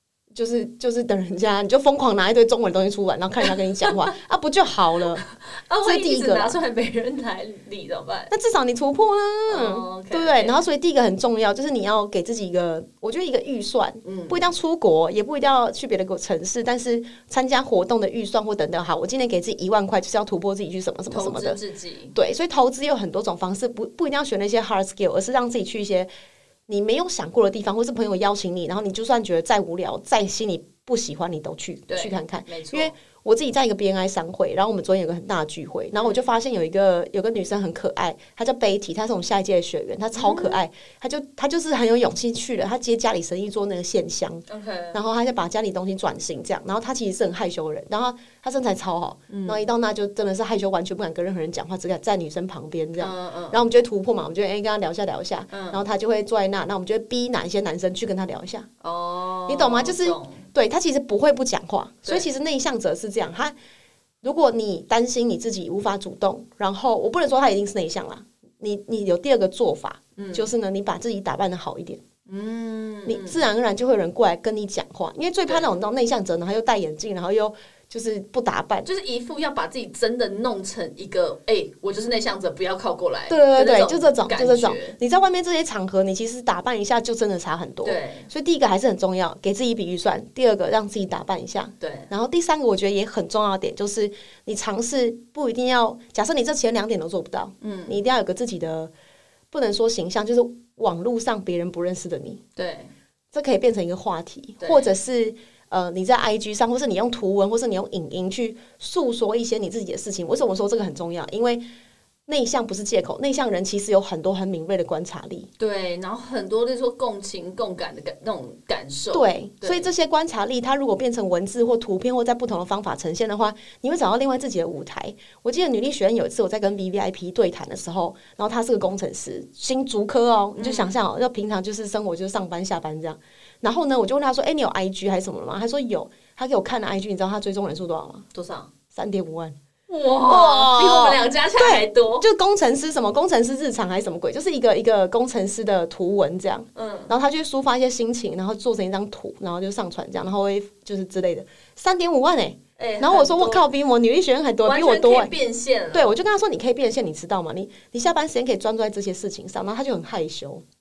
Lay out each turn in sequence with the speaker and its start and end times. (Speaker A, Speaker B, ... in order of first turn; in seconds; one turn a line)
Speaker A: 0.3-5.2
Speaker B: 3.4-3.9
Speaker B: 5.2-8.3
Speaker A: 5.8-6.6
Speaker A: 8.3-21.6
Speaker B: 9.5-10.7
Speaker B: 14.0-14.5
Speaker B: 21.1-22.1
Speaker A: 22.1-26.1
Speaker A: 26.7-58.7
Speaker B: 31.9-32.9
Speaker B: 35.9-36.2
Speaker B: 40.1-40.6
Speaker B: 44.5-45.0
Speaker B: 49.3-49.7
Speaker B: 53.0-53.6
Speaker B: 55.5-55.9
Speaker B: 58.8-60.5
Speaker A: 59.5-63.6
Speaker A: 64.2-72.0
Speaker B: 70.2-70.5
Speaker B: 72.2-73.5
Speaker A: 73.1-78.9
Speaker B: 75.5-75.7
Speaker B: 78.8-85.0
Speaker A: 83.3-98.9
Speaker B: 87.8-88.3
Speaker B: 91.8-92.1
Speaker B: 97.6-98.0
Speaker A: 99.5-102.4
Speaker B: 102.6-102.9
Speaker A: 103.3-111.7
Speaker B: 104.6-104.9
Speaker A: 112.3-115.5
Speaker B: 115.6-119.9
Speaker A: 119.1-138.2
Speaker B: 130.6-131.0
Speaker B: 138.3-138.7
Speaker A: 138.9-139.6
Speaker B: 139.9-142.3
Speaker A: 140.3-155.3
Speaker B: 146.8-147.1
Speaker B: 152.8-153.7
Speaker B: 154.6-156.1
Speaker A: 155.9-160.6